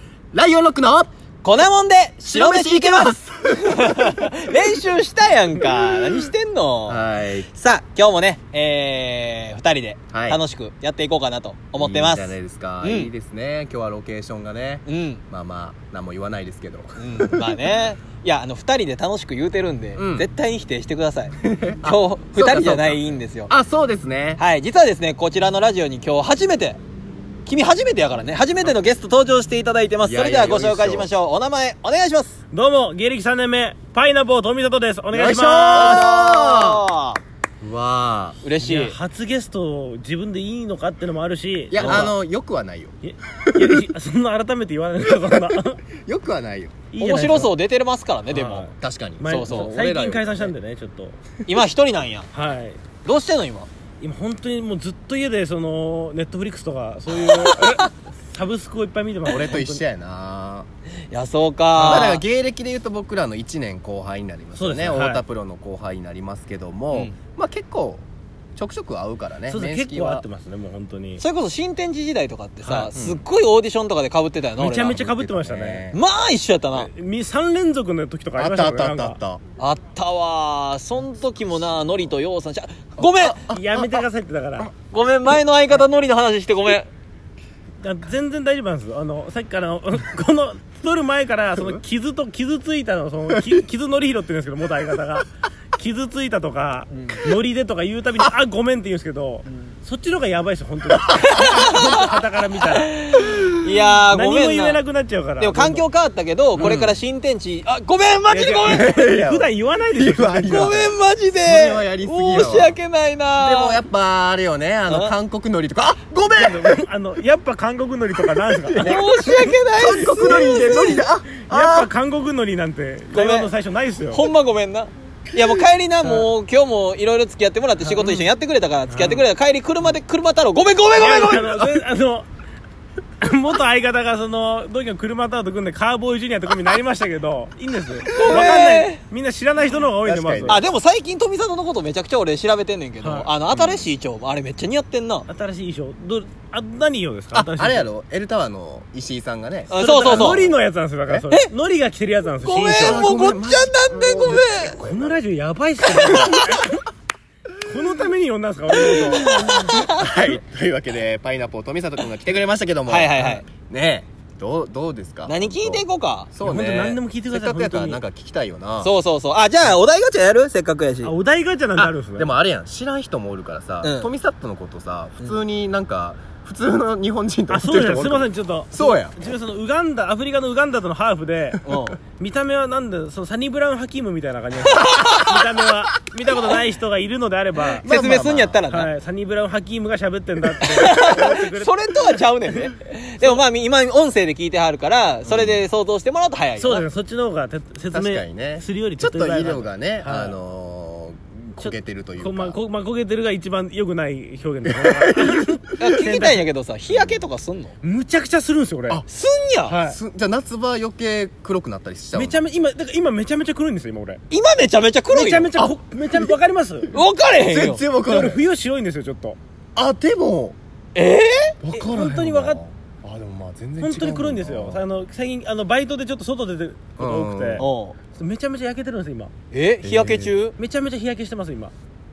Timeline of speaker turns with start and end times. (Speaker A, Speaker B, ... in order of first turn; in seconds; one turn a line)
Speaker A: 0.3-1.1
Speaker B: 1.4-13.1
Speaker A: 2.3-4.3
Speaker A: 6.9-7.5
Speaker A: 10.1-10.4
Speaker A: 11.8-17.6
Speaker B: 14.9-15.2
Speaker B: 17.0-23.5
Speaker A: 20.0-20.3
Speaker A: 21.4-24.4
Speaker B: 24.4-26.8
Speaker B: 27.5-32.4
Speaker A: 30.0-31.1
Speaker C: 32.5-36.0
Speaker A: 35.1-36.8
Speaker B: 35.7-37.2
Speaker A: 37.6-38.4
Speaker B: 38.4-39.0
Speaker C: 38.6-42.1
Speaker A: 41.7-42.9
Speaker B: 41.8-42.1
Speaker C: 43.0-45.8
Speaker A: 43.5-43.8
Speaker A: 45.0-46.8
Speaker C: 46.9-47.5
Speaker B: 47.0-48.7
Speaker C: 48.3-51.2
Speaker A: 48.8-50.5
Speaker B: 49.3-49.7
Speaker B: 51.5-52.3
Speaker C: 52.3-52.8
Speaker B: 53.0-53.7
Speaker C: 54.0-59.8
Speaker B: 57.2-57.9
Speaker A: 59.3-60.7
Speaker B: 61.1-62.2
Speaker A: 61.8-68.0
Speaker C: 64.6-65.2
Speaker A: 68.6-70.2
Speaker C: 69.5-71.2
Speaker B: 71.2-75.0
Speaker C: 72.6-72.9
Speaker A: 72.9-73.2
Speaker C: 74.6-75.8
Speaker A: 74.8-76.0
Speaker B: 75.9-76.9
Speaker C: 76.7-79.2
Speaker A: 78.4-79.4
Speaker B: 79.6-83.4
Speaker A: 83.0-84.0
Speaker C: 83.5-84.7
Speaker B: 84.9-86.9
Speaker C: 87.8-102.9
Speaker A: 93.3-93.6
Speaker B: 96.9-97.2
Speaker A: 101.0-101.8
Speaker B: 101.2-102.0
Speaker B: 102.6-104.8
Speaker C: 104.1-105.8
Speaker B: 105.4-108.9
Speaker A: 106.6-106.9
Speaker C: 106.6-106.9
Speaker C: 108.3-110.8
Speaker A: 108.6-112.8
Speaker B: 110.5-113.8
Speaker A: 113.4-116.8
Speaker B: 114.9-115.2
Speaker C: 116.3-118.9
Speaker A: 118.4-121.9
Speaker B: 118.8-121.1
Speaker C: 120.3-124.2
Speaker B: 123.1-123.5
Speaker B: 124.1-131.8
Speaker C: 127.8-128.2
Speaker C: 128.9-129.3
Speaker C: 130.9-132.3
Speaker C: 133.2-140.6
Speaker B: 138.1-139.0
Speaker A: 138.1-138.6
Speaker A: 140.0-140.7
Speaker B: 140.5-145.3
Speaker C: 143.0-143.3
Speaker A: 143.5-143.9
Speaker C: 145.3-147.9
Speaker A: 147.3-150.6
Speaker B: 149.7-150.4
Speaker C: 149.7-153.1
Speaker B: 152.4-154.8
Speaker A: 152.8-155.2
Speaker C: 154.8-156.8
Speaker A: 155.9-156.6
Speaker C: 157.7-159.7
Speaker B: 158.7-160.2
Speaker A: 159.0-168.9
Speaker B: 162.9-163.4
Speaker B: 165.3-166.3
Speaker C: 166.4-168.0
Speaker B: 168.8-171.1
Speaker C: 171.0-172.3
Speaker A: 172.2-179.1
Speaker B: 173.8-174.1
Speaker C: 177.5-181.6
Speaker B: 181.7-182.0
Speaker C: 182.2-187.9
Speaker B: 184.8-185.4
Speaker A: 187.8-188.6
Speaker B: 187.8-188.9
Speaker C: 188.7-192.6
Speaker B: 190.6-196.9
Speaker A: 195.2-195.6
Speaker C: 196.6-200.4
Speaker A: 197.9-202.6
Speaker C: 201.6-206.4
Speaker A: 204.8-206.0
Speaker B: 205.8-207.7
Speaker A: 206.9-207.2
Speaker C: 207.8-209.0
Speaker B: 209.1-209.8
Speaker C: 209.7-210.0
Speaker A: 209.8-212.4
Speaker C: 212.1-214.2
Speaker B: 214.3-215.5
Speaker C: 215.1-216.9
Speaker A: 215.5-216.4
Speaker B: 216.9-217.8
Speaker A: 216.9-218.4
Speaker C: 218.1-219.4
Speaker A: 219.8-220.6
Speaker B: 220.9-221.5
Speaker A: 221.6-224.8
Speaker C: 221.7-222.6
Speaker C: 223.8-229.3
Speaker A: 227.0-227.7
Speaker B: 227.6-228.0
Speaker B: 229.5-230.6
Speaker A: 229.8-230.3
Speaker C: 230.6-231.7